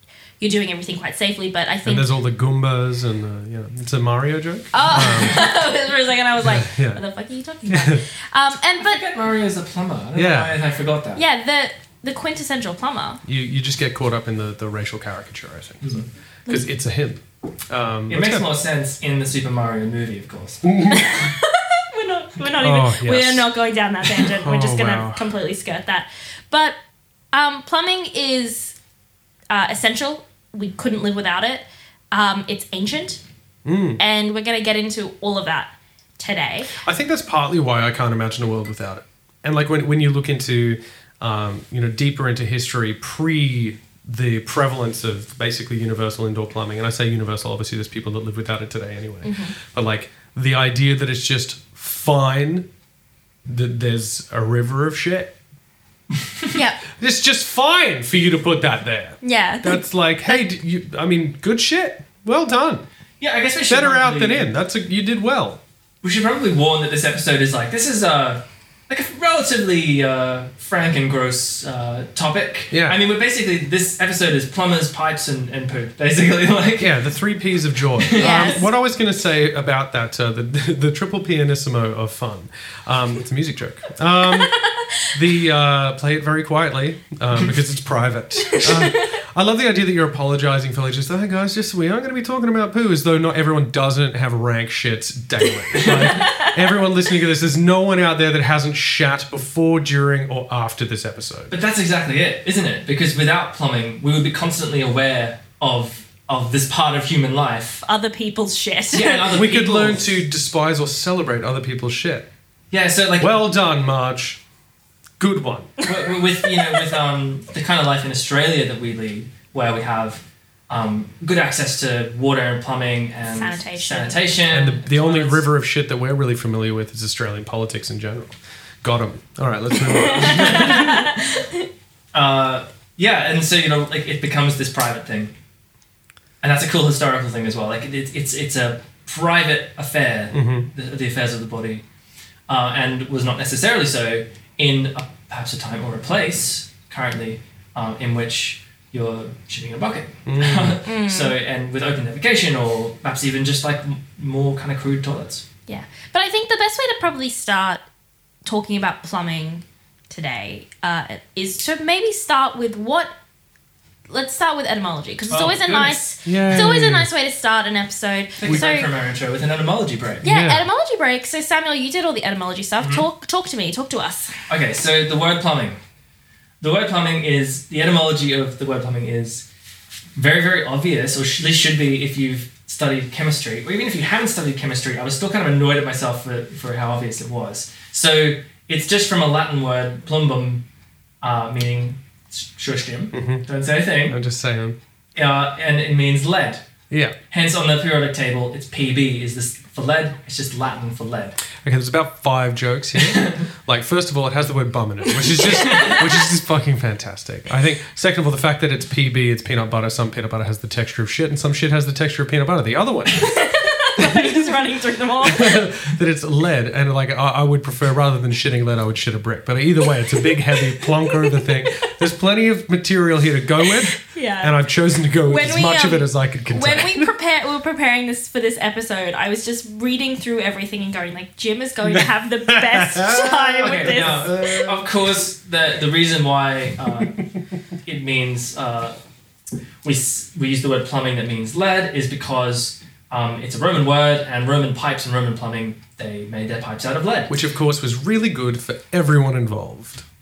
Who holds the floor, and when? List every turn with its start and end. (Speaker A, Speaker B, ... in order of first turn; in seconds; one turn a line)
Speaker A: 0.4-2.1
Speaker B: 1.9-5.5
Speaker A: 4.7-9.0
Speaker B: 6.4-7.0
Speaker B: 7.7-8.0
Speaker C: 8.8-11.2
Speaker B: 10.1-10.6
Speaker A: 11.2-13.2
Speaker B: 13.2-18.5
Speaker C: 15.8-16.1
Speaker C: 18.1-20.6
Speaker B: 20.6-21.3
Speaker A: 20.9-26.8
Speaker B: 22.6-23.5
Speaker B: 24.3-25.3
Speaker A: 27.3-28.7
Speaker A: 29.5-33.2
Speaker B: 33.6-34.0
Speaker A: 34.0-36.7
Speaker B: 36.8-52.7
Speaker A: 49.2-49.5
Speaker B: 53.5-55.4
Speaker A: 56.5-56.8
Speaker B: 56.9-62.8
Speaker A: 59.2-60.5
Speaker C: 63.2-64.5
Speaker B: 63.7-65.6
Speaker C: 66.0-77.0
Speaker B: 72.7-73.0
Speaker B: 76.8-101.5
Speaker C: 78.0-78.5
Speaker A: 78.2-78.7
Speaker A: 84.5-85.1
Speaker A: 88.5-89.1
Speaker C: 95.7-96.2
Speaker A: 95.8-96.6
Speaker C: 101.5-107.8
Speaker A: 107.8-109.3
Speaker C: 108.9-110.1
Speaker B: 109.3-112.3
Speaker C: 112.7-113.3
Speaker B: 113.2-114.4
Speaker B: 115.2-115.8
Speaker C: 115.8-125.5
Speaker A: 123.2-124.3
Speaker B: 124.5-131.1
Speaker A: 129.8-131.7
Speaker C: 130.2-130.8
Speaker C: 132.1-135.3
Speaker C: 136.4-141.8
Speaker B: 140.3-140.7
Speaker C: 142.5-155.4
Speaker B: 150.2-150.8
Speaker A: 150.8-151.4
Speaker A: 155.7-157.8
Speaker A: 158.4-163.1
Speaker A: 164.1-168.9
Speaker C: 165.3-166.0
Speaker B: 166.2-167.1
Speaker C: 168.4-170.2
Speaker A: 170.2-174.3
Speaker B: 170.2-170.7
Speaker C: 172.8-173.1
Speaker C: 174.5-175.8
Speaker C: 176.6-179.5
Speaker C: 180.2-190.6
Speaker C: 191.2-194.2
Speaker B: 193.1-193.4
Speaker B: 194.1-194.8
Speaker C: 195.1-196.6
Speaker B: 196.9-197.2
Speaker C: 197.3-201.4
Speaker B: 201.6-214.6
Speaker C: 202.9-203.4
Speaker A: 205.2-206.0
Speaker C: 205.6-206.0
Speaker A: 213.2-215.7
Speaker B: 215.2-227.1
Speaker A: 220.5-221.9
Speaker A: 223.7-224.6
Speaker A: 225.2-234.4
Speaker B: 231.9-234.9
Speaker C: 233.6-237.2
Speaker C: 237.8-238.9
Speaker C: 239.8-247.3
Speaker B: 247.3-250.0